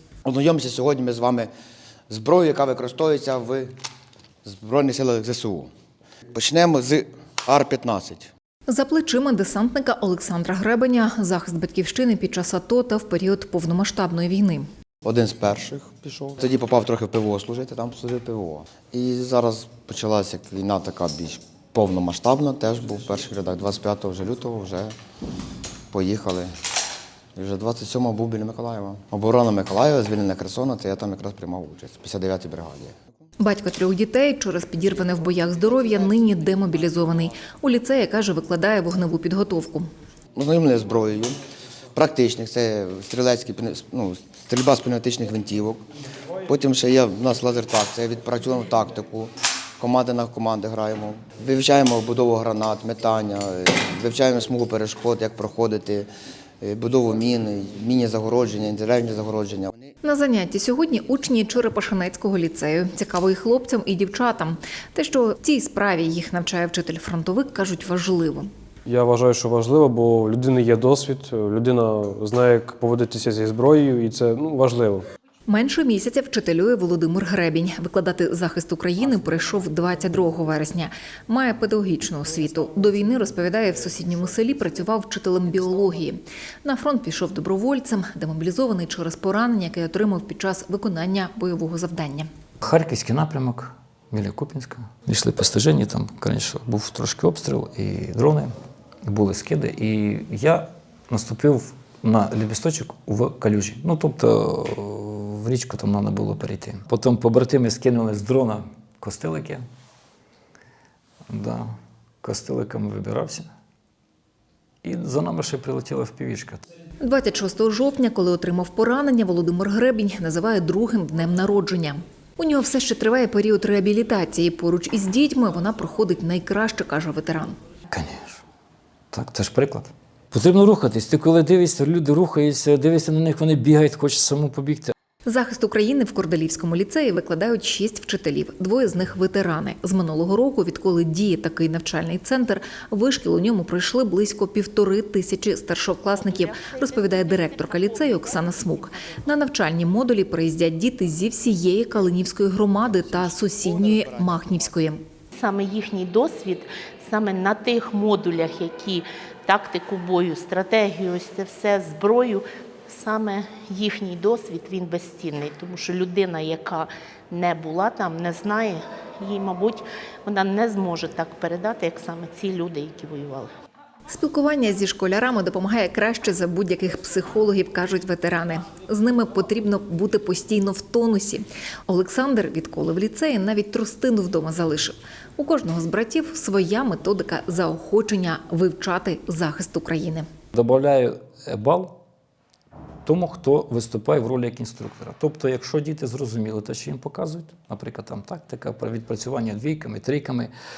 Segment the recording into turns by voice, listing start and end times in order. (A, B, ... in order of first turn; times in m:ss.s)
0:00.2-0:01.5 A
0:02.1-0:03.7 A
0:04.4-0:05.7 A
0:06.3-0:08.3 A
0:08.7-0:14.7 B
0:15.0-0:24.9 A
0:25.9-0:26.5 A
0:27.4-0:32.9 A
0:33.4-0:39.9 B
0:40.4-0:41.4 A
0:41.9-0:45.8 A
0:46.5-0:56.1 A
0:56.6-0:59.9 A
1:00.0-1:08.5 B
1:08.8-1:15.0 C
1:15.5-1:32.3 B
1:32.6-1:38.5 D
1:39.0-1:49.6 D
1:51.3-1:51.6 D
1:52.2-1:53.5 D
1:54.8-1:56.6 D
1:57.0-2:07.6 B
2:07.9-2:08.4 D
2:09.1-2:14.9 D
2:15.3-2:35.0 B
2:26.0-2:28.8 E
2:33.0-2:34.6 A
2:35.3-2:53.5 E
2:54.1-3:10.2 B
3:10.5-3:11.9 D
3:13.0-3:20.5 D